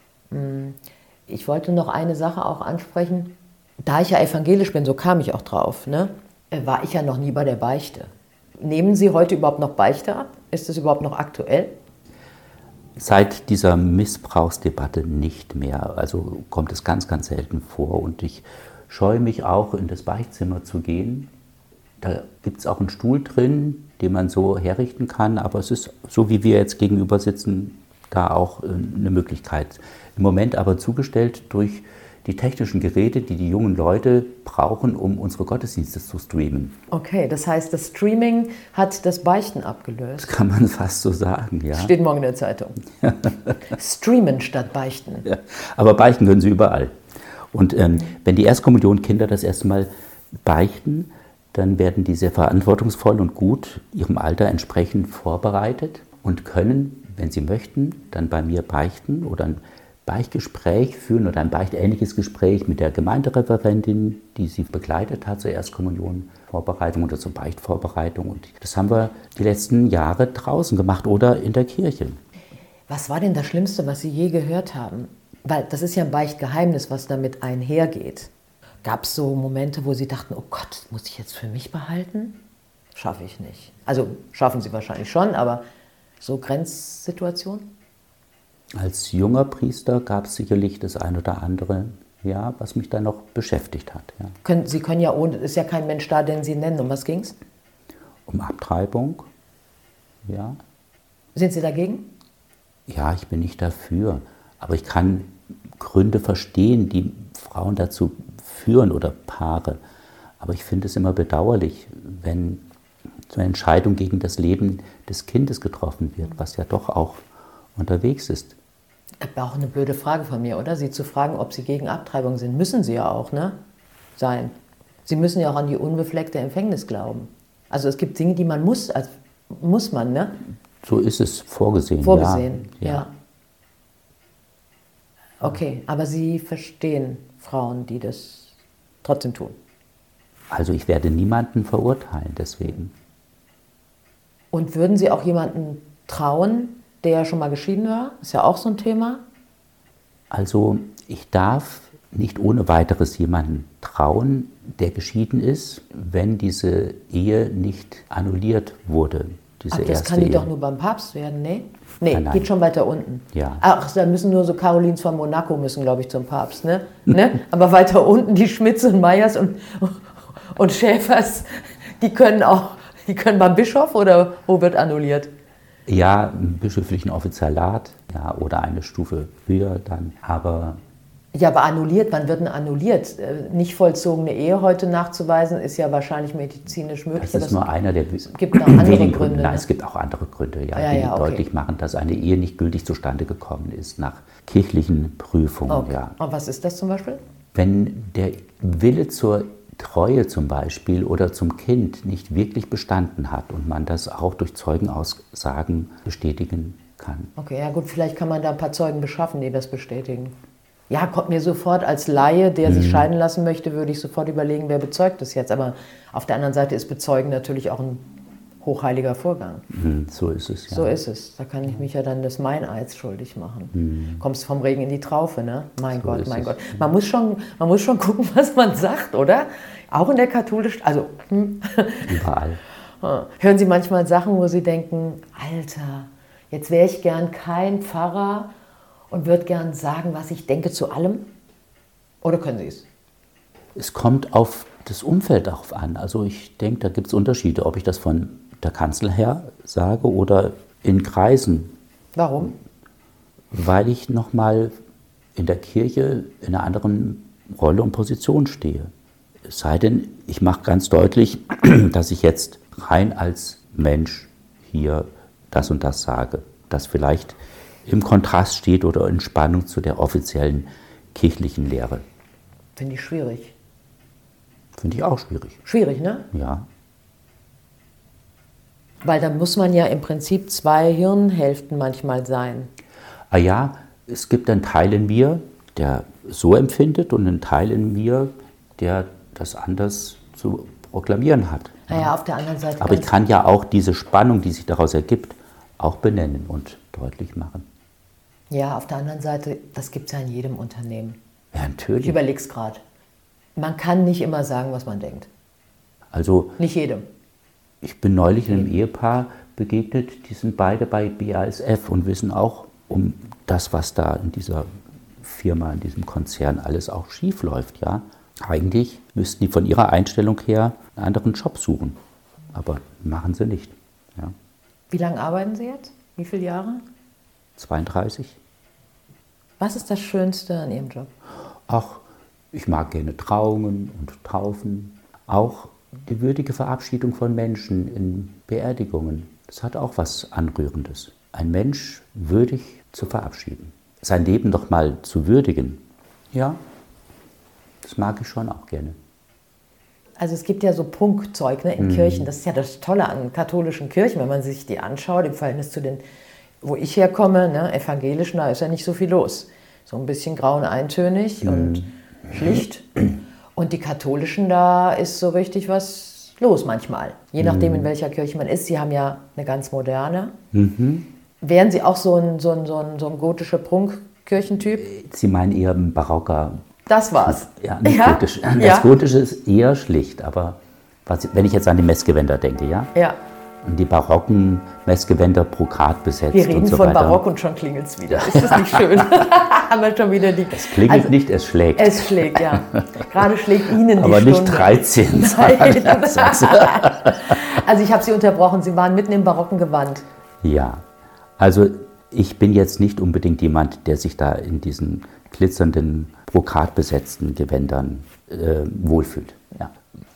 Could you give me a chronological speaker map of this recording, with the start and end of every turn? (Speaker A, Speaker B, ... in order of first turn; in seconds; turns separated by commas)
Speaker A: 0.3-11.8, Speaker B: 13.0-21.3, Speaker B: 22.0-36.8, Speaker A: 36.9-40.3, Speaker B: 40.2-41.9, Speaker A: 41.7-42.8, Speaker B: 43.0-43.6, Speaker A: 43.7-45.3, Speaker B: 45.2-47.0, Speaker B: 47.5-49.9, Speaker B: 50.5-72.2, Speaker A: 72.9-78.3, Speaker A: 78.8-82.4, Speaker A: 83.0-85.6, Speaker A: 86.2-87.7, Speaker B: 88.8-94.3, Speaker A: 94.4-97.4, Speaker B: 98.3-99.3, Speaker B: 100.3-100.6, Speaker A: 101.3-102.1, Speaker B: 102.9-109.8, Speaker B: 110.4-112.7, Speaker B: 113.3-117.2, Speaker B: 117.8-118.5, Speaker A: 119.2-123.6, Speaker A: 124.2-124.5, Speaker A: 125.1-130.4, Speaker B: 130.8-133.1, Speaker A: 132.0-133.1, Speaker A: 135.4-138.5, Speaker A: 139.0-139.6, Speaker B: 140.5-142.9, Speaker A: 144.5-149.2, Speaker B: 150.3-160.5, Speaker A: 159.7-175.3, Speaker B: 162.1-162.5, Speaker B: 163.3-163.6, Speaker B: 175.9-180.8, Speaker A: 181.3-187.7, Speaker B: 187.2-196.2, Speaker A: 188.3-189.7, Speaker A: 190.7-191.4, Speaker A: 195.7-197.2, Speaker B: 197.6-207.3, Speaker A: 207.4-210.4, Speaker A: 210.9-218.1, Speaker B: 212.7-213.1, Speaker A: 218.6-219.7, Speaker B: 219.7-221.0, Speaker A: 220.7-232.2, Speaker B: 223.7-224.2, Speaker B: 225.9-226.9, Speaker B: 232.0-232.6, Speaker A: 233.0-238.5, Speaker A: 239.1-241.3, Speaker A: 242.2-242.9, Speaker B: 243.8-251.7, Speaker A: 252.2-252.6, Speaker B: 253.5-254.7, Speaker B: 255.4-258.9, Speaker B: 259.5-272.0, Speaker A: 272.8-273.6, Speaker B: 274.8-275.6, Speaker A: 275.6-276.3, Speaker B: 276.3-276.7, Speaker A: 279.0-282.7, Speaker B: 283.3-292.1, Speaker A: 291.9-293.1, Speaker B: 292.8-297.7, Speaker A: 298.5-301.2, Speaker B: 301.5-302.2, Speaker A: 302.0-302.8, Speaker A: 303.6-305.3, Speaker B: 306.1-306.6, Speaker A: 306.6-307.1, Speaker B: 307.8-314.7, Speaker B: 315.2-322.0, Speaker B: 322.5-324.4, Speaker A: 324.9-326.8, Speaker B: 327.6-328.4, Speaker A: 329.6-331.1, Speaker B: 331.7-346.6, Speaker B: 347.8-349.0, Speaker A: 350.2-356.0, Speaker B: 351.8-352.3, Speaker A: 356.6-362.9, Speaker B: 361.4-361.9, Speaker A: 363.6-370.4, Speaker B: 367.4-367.9, Speaker B: 370.5-371.1, Speaker A: 371.4-374.9, Speaker B: 374.8-376.7, Speaker A: 376.9-378.9, Speaker B: 377.2-382.9, Speaker B: 383.6-387.2, Speaker A: 386.3-391.1, Speaker B: 388.1-388.8, Speaker B: 390.5-393.1, Speaker A: 391.8-400.1, Speaker B: 393.9-397.4, Speaker B: 400.4-400.8, Speaker B: 401.4-409.8